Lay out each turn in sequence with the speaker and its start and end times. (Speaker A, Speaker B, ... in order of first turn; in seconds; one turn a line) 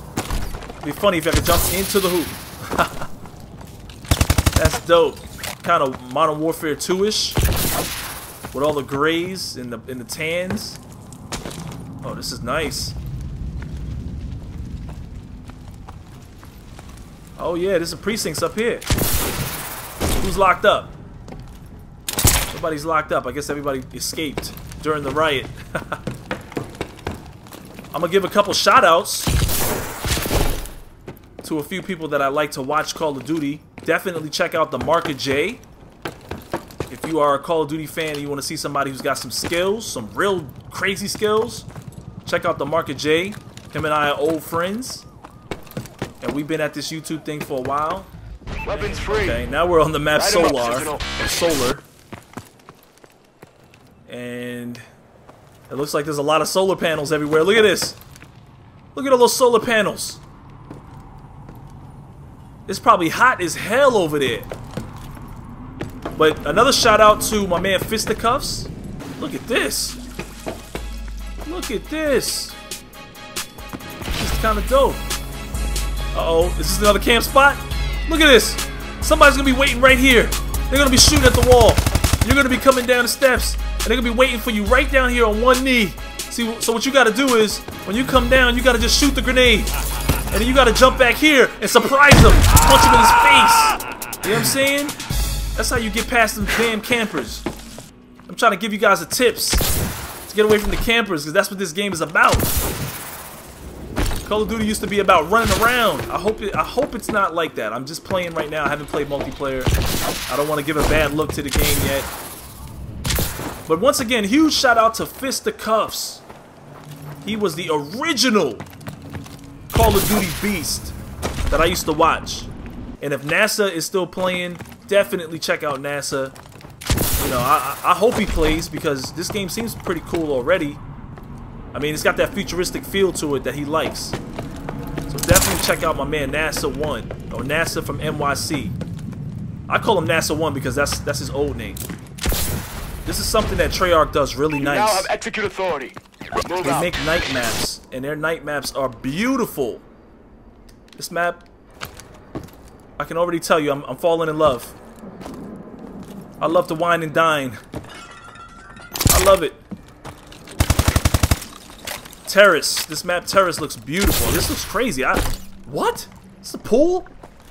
Speaker A: 0.8-3.1
Speaker A: 4.6-7.4
Speaker A: 8.5-10.8
Speaker A: 12.0-13.0
Speaker A: 17.4-18.9
Speaker A: 20.2-21.0
Speaker A: 22.5-26.0
Speaker A: 27.9-29.3
Speaker A: 31.4-35.6
Speaker A: 36.9-41.7
Speaker A: 42.2-45.1
Speaker A: 46.2-48.1
Speaker B: 48.7-49.4
Speaker A: 48.7-51.9
Speaker B: 50.4-51.0
Speaker A: 54.1-54.8
Speaker A: 55.7-58.0
Speaker A: 59.0-60.2
Speaker A: 62.7-64.5
Speaker A: 66.2-70.0
Speaker A: 71.5-72.6
Speaker A: 74.1-75.0
Speaker A: 76.1-89.7
Speaker A: 90.3-95.0
Speaker A: 95.6-97.5
Speaker A: 98.3-99.7
Speaker A: 100.3-102.6
Speaker A: 104.2-109.7
Speaker A: 110.3-112.1
Speaker A: 113.7-116.2
Speaker A: 117.2-118.7
Speaker A: 119.7-121.0
Speaker A: 121.5-126.4
Speaker A: 127.2-130.8
Speaker A: 131.7-134.2
Speaker A: 135.1-138.8
Speaker A: 139.7-141.8
Speaker A: 143.1-145.1
Speaker B: 144.6-146.9
Speaker A: 146.6-149.9
Speaker A: 151.0-151.4
Speaker A: 153.0-154.8
Speaker A: 156.4-157.6
Speaker A: 159.1-159.6
Speaker A: 162.3-167.1